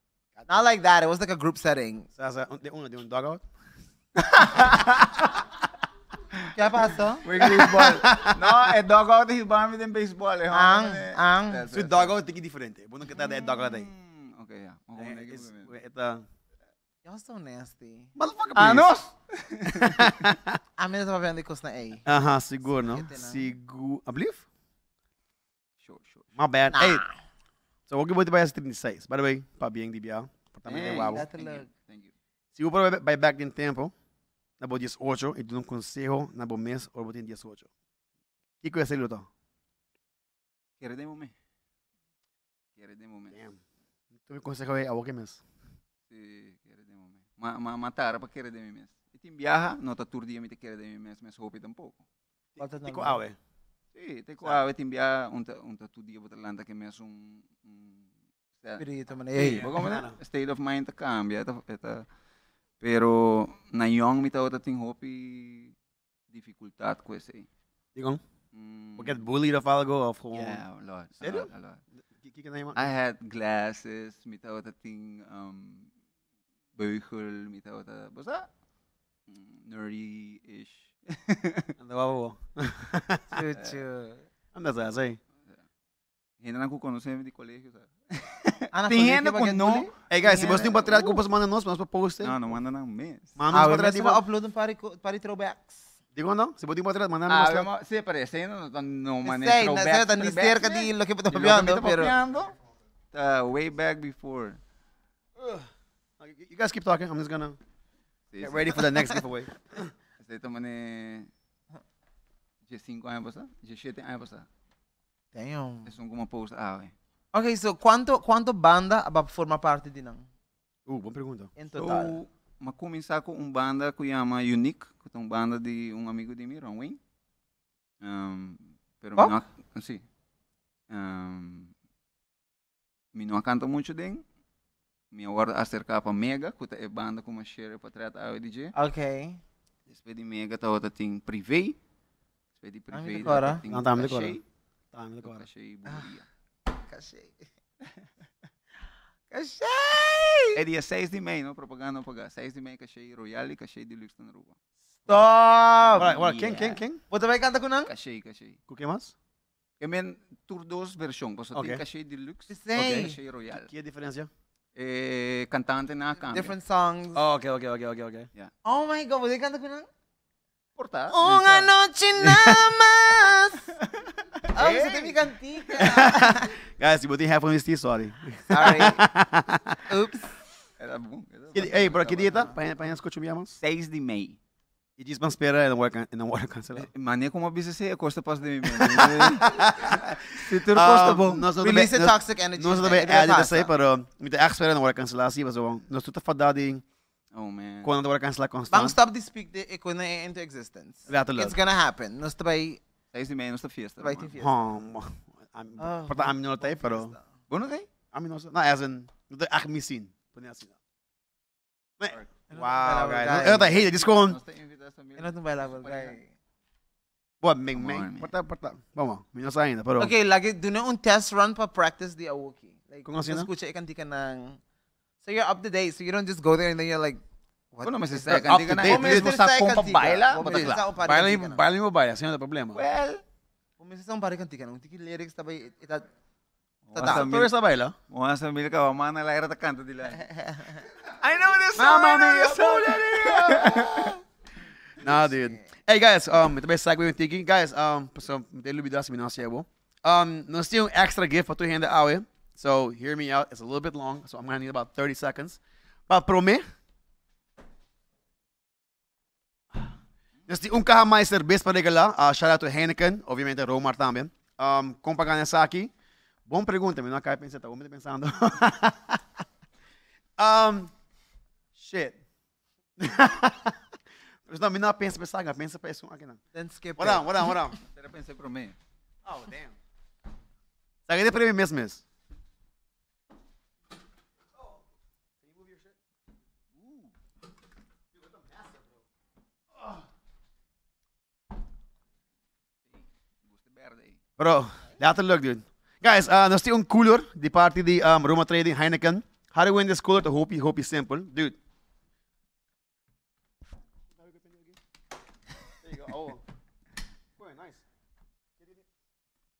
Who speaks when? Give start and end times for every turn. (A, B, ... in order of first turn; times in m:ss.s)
0:00.3-0:00.6 A
0:00.5-0:02.1 B
0:02.2-0:03.4 A
0:04.2-0:05.0 C
0:04.6-0:04.8 A
0:06.5-0:07.3 B
0:07.2-0:12.2 C
0:07.4-0:08.7 A
0:10.5-0:11.6 B
0:11.7-0:13.9 A
0:13.1-0:15.7 C
0:15.0-0:16.2 A
0:17.0-0:18.1 B
0:18.2-0:18.9 A
0:18.5-0:20.2 C
0:19.7-0:20.6 A
0:20.8-0:22.0 B
0:22.0-0:24.4 A
0:22.6-0:23.5 B
0:25.8-0:26.3 C
0:26.4-0:27.0 A
0:26.7-0:27.1 B
0:27.9-0:31.2 A
0:30.6-0:32.1 C
0:31.0-0:31.7 B
0:32.5-0:33.9 A
0:34.6-0:37.7 A
0:38.6-0:39.3 A
0:40.8-0:41.3 C
0:42.8-0:43.4 C
0:43.3-0:43.6 A
0:44.2-0:45.4 A
0:46.1-0:52.0 C
0:52.6-0:53.2 B
0:52.6-0:53.4 A
0:53.9-0:58.1 C
0:58.8-0:59.7 B
0:59.3-1:00.2 A
0:59.3-1:02.0 C
1:02.8-1:05.7 C
1:06.3-1:07.5 C
1:07.9-1:08.2 A
1:08.5-1:09.2 C
1:09.0-1:10.6 A
1:10.3-1:11.8 C
1:11.2-1:11.5 A
1:12.2-1:12.9 A
1:12.7-1:15.9 C
1:16.8-1:18.5 C
1:19.3-1:21.7 C
1:21.8-1:23.4 A
1:23.3-1:24.2 B
1:24.5-1:25.2 A
1:26.4-1:29.9 C
1:28.7-1:31.1 B
1:30.1-1:32.4 A
1:32.2-1:33.4 C
1:33.4-1:34.2 A
1:33.5-1:35.9 B
1:36.1-1:37.7 A
1:37.3-1:42.6 C
1:39.2-1:42.1 B
1:43.1-1:44.6 C
1:45.4-1:45.7 A
1:46.2-1:47.6 A
1:48.3-1:48.8 C
1:48.4-1:49.9 A
1:50.2-1:51.3 C
1:52.7-1:54.5 C
1:55.3-1:55.9 B
1:55.9-1:56.9 C
1:57.3-2:00.3 B
2:00.8-2:01.5 A
2:01.6-2:02.2 B
2:01.8-2:07.0 C
2:08.0-2:10.0 C
2:10.9-2:11.7 C
2:13.1-2:14.2 C
2:15.1-2:18.7 C
2:18.7-2:19.4 B
2:19.9-2:21.8 C
2:22.6-2:24.4 C
2:22.9-2:23.6 B
2:23.7-2:24.4 A
2:24.9-2:25.4 A
2:25.2-2:26.2 C
2:26.7-2:27.5 B
2:29.3-2:30.6 B
2:30.5-2:34.5 C
2:35.1-2:36.1 B
2:35.8-2:36.8 C
2:36.0-2:37.0 A
2:37.1-2:37.9 B
2:37.9-2:38.6 C
2:38.7-2:39.1 A
2:39.8-2:43.7 C
2:41.5-2:41.8 A
2:42.5-2:43.2 B
2:42.7-2:44.3 A
2:44.7-2:46.5 C
2:46.3-2:47.2 B
2:47.1-2:48.3 A
2:48.6-2:49.9 B
2:50.8-2:51.7 C
2:51.1-2:53.7 B
2:52.2-2:52.7 A
2:53.8-2:55.2 C
2:54.5-2:56.5 B
2:55.8-2:59.9 A
2:58.5-2:59.0 B
2:59.9-3:00.3 B
3:00.8-3:02.5 C
3:01.5-3:03.6 A
3:03.6-3:04.4 C
3:05.0-3:06.9 A
3:06.8-3:11.5 C
3:08.7-3:16.8 A
3:11.6-3:13.7 B
3:17.3-3:17.9 C
3:17.8-3:19.0 A
3:18.7-3:22.8 B
3:21.1-3:21.6 A
3:23.1-3:24.3 C
3:24.0-3:24.5 B
3:24.4-3:27.1 A
3:25.8-3:27.2 B
3:27.5-3:27.9 C
3:28.1-3:30.8 A
3:32.0-3:34.4 A
3:32.5-3:33.7 B
3:33.2-3:36.2 C
3:35.2-3:36.3 B
3:37.4-3:40.1 A
3:37.7-3:38.3 C
3:40.0-3:44.6 B
3:43.0-3:43.5 A
3:45.2-3:47.2 B
3:47.7-3:51.6 B
3:47.8-3:50.8 C
3:48.3-3:52.8 A
3:52.7-3:53.2 C
3:53.8-3:56.1 B
3:56.8-3:57.5 C
3:56.9-3:57.3 B
3:57.0-3:58.0 A
3:58.1-4:04.1 C
4:00.4-4:00.8 B
4:01.8-4:04.2 B
4:01.8-4:03.8 A
4:05.0-4:16.6 A
4:20.5-4:25.9 A
4:26.5-4:29.2 A
4:30.4-4:30.9 A
4:31.8-4:32.2 A
4:33.0-4:33.8 A
4:34.4-4:36.4 A
4:36.5-4:37.6 B
4:37.0-4:37.7 A
4:37.8-4:38.8 C
4:39.2-4:39.7 A
4:41.1-4:42.0 A
4:45.4-4:45.9 A
4:46.8-4:47.1 C
4:48.2-4:48.9 A
4:52.9-4:54.2 C
4:54.4-5:01.6 A
5:04.2-5:04.8 A
5:05.8-5:06.4 A
5:07.4-5:07.8 A
5:08.6-5:08.8 A